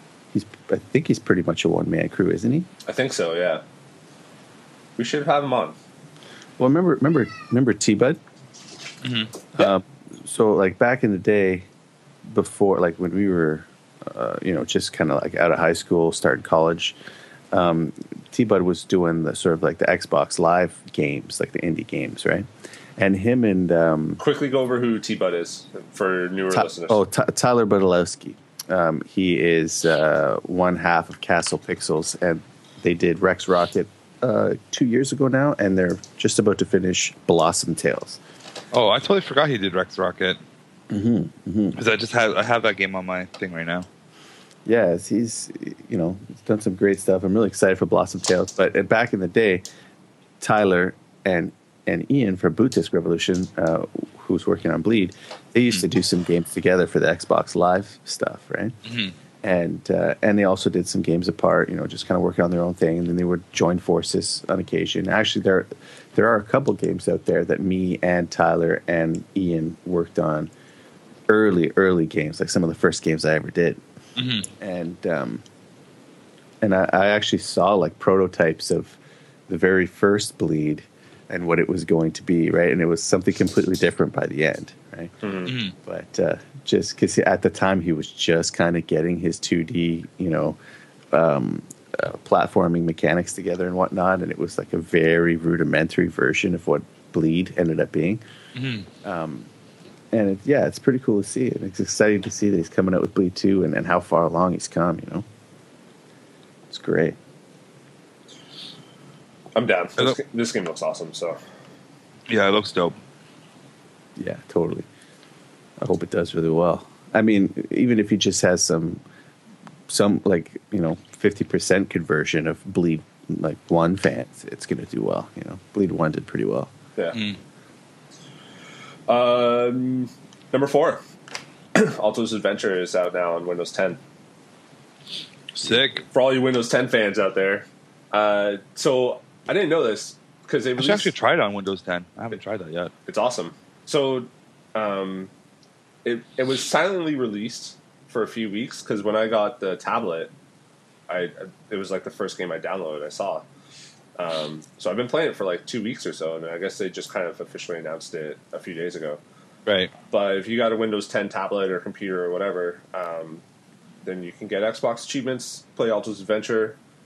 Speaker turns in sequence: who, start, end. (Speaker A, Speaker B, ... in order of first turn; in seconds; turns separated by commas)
Speaker A: 0.3-2.7, Speaker B: 2.9-3.6, Speaker B: 5.0-5.8, Speaker A: 6.6-8.2, Speaker C: 9.0-9.3, Speaker A: 9.5-11.7, Speaker A: 12.2-17.0, Speaker A: 17.5-24.2, Speaker B: 24.2-27.0, Speaker A: 26.5-38.2, Speaker C: 38.7-40.4, Speaker A: 40.9-41.8, Speaker C: 41.8-43.9, Speaker A: 44.6-49.6, Speaker A: 50.4-58.8, Speaker C: 58.9-59.1, Speaker A: 59.4-70.5, Speaker A: 71.3-73.8, Speaker C: 74.2-74.5, Speaker A: 74.6-75.4, Speaker A: 76.6-85.1, Speaker B: 85.2-85.5, Speaker C: 85.5-85.7, Speaker A: 85.8-90.6, Speaker A: 91.1-98.2, Speaker C: 98.5-98.9, Speaker A: 99.0-99.5, Speaker A: 100.1-105.2, Speaker A: 106.7-107.2, Speaker B: 109.5-111.4, Speaker C: 112.3-113.0, Speaker A: 114.2-114.9, Speaker A: 115.8-119.0, Speaker A: 119.9-126.7, Speaker B: 129.1-131.0, Speaker B: 131.7-134.0, Speaker C: 135.5-136.0, Speaker B: 136.0-141.1, Speaker C: 140.8-142.9, Speaker B: 143.1-145.3, Speaker B: 146.0-150.3, Speaker B: 151.1-153.4, Speaker B: 154.2-159.2, Speaker C: 159.7-159.9, Speaker B: 160.1-163.4, Speaker B: 164.0-166.8